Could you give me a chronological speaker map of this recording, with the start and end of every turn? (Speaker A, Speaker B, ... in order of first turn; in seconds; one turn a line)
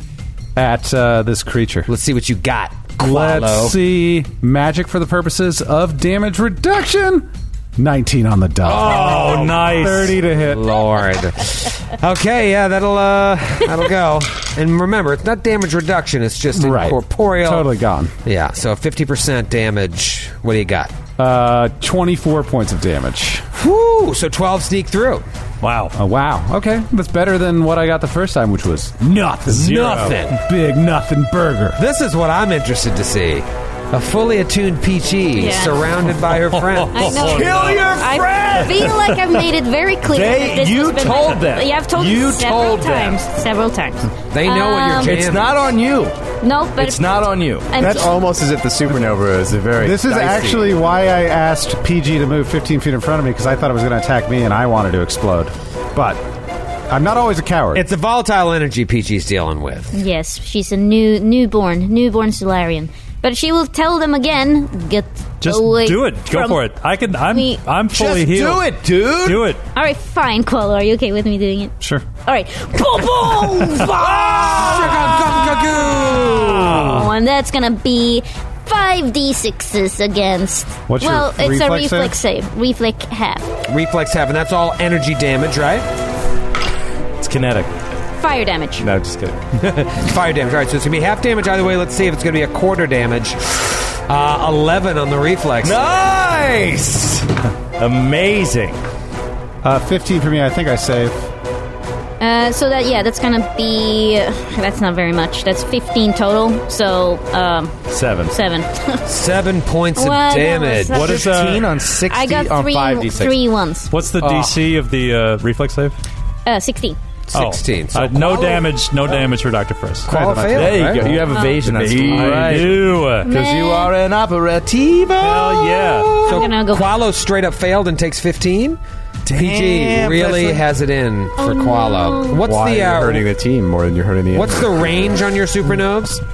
Speaker A: 0.6-1.9
Speaker B: 1.9-3.8
Speaker A: 3.0-10.7
Speaker B: 8.7-17.7
Speaker C: 8.7-10.2
Speaker A: 16.5-18.1
Speaker B: 18.2-21.0
Speaker A: 21.2-23.5
Speaker B: 23.6-25.2
Speaker C: 25.6-25.9
Speaker A: 26.0-31.8
Speaker B: 29.5-30.4
Speaker D: 29.5-30.2
Speaker B: 31.8-37.4
Speaker E: 35.4-35.8
Speaker C: 36.3-38.0
Speaker E: 36.9-45.2
Speaker D: 37.2-39.0
Speaker C: 38.8-39.2
Speaker D: 40.0-43.2
Speaker B: 44.3-45.7
Speaker D: 45.0-46.2
Speaker E: 46.4-48.1
Speaker D: 46.8-47.7
Speaker F: 47.8-50.7
Speaker A: 49.8-56.2
Speaker A: 56.9-57.9
Speaker B: 57.7-60.0
Speaker E: 59.9-66.6
Speaker C: 65.4-69.6
Speaker E: 67.3-67.6
Speaker D: 67.9-69.5
Speaker E: 69.8-71.7
Speaker E: 72.3-74.4
Speaker D: 73.3-75.4
Speaker B: 74.4-77.1
Speaker E: 76.7-83.5
Speaker A: 80.9-82.2
Speaker B: 83.7-85.9
Speaker D: 87.2-87.7
Speaker E: 88.2-88.9
Speaker D: 88.8-89.4
Speaker B: 89.6-95.8
Speaker D: 95.6-98.8
Speaker A: 99.6-101.3
Speaker E: 102.2-107.8
Speaker D: 107.9-108.4
Speaker E: 108.3-109.0
Speaker B: 109.0-111.1
Speaker E: 110.0-111.3
Speaker C: 110.9-111.7
Speaker D: 110.9-113.4
Speaker E: 112.1-113.9
Speaker C: 113.9-116.0
Speaker D: 114.2-114.6
Speaker E: 116.5-117.0
Speaker B: 117.3-118.7
Speaker C: 117.3-120.2
Speaker B: 120.1-121.2
Speaker A: 120.1-121.2
Speaker D: 120.5-126.5
Speaker E: 121.3-121.7
Speaker C: 121.7-123.3
Speaker E: 123.2-123.9
Speaker C: 125.2-126.3
Speaker E: 126.3-127.0
Speaker B: 126.3-128.8
Speaker D: 129.3-130.7
Speaker B: 129.3-133.3
Speaker E: 131.4-132.4
Speaker F: 132.4-134.8
Speaker B: 134.3-136.2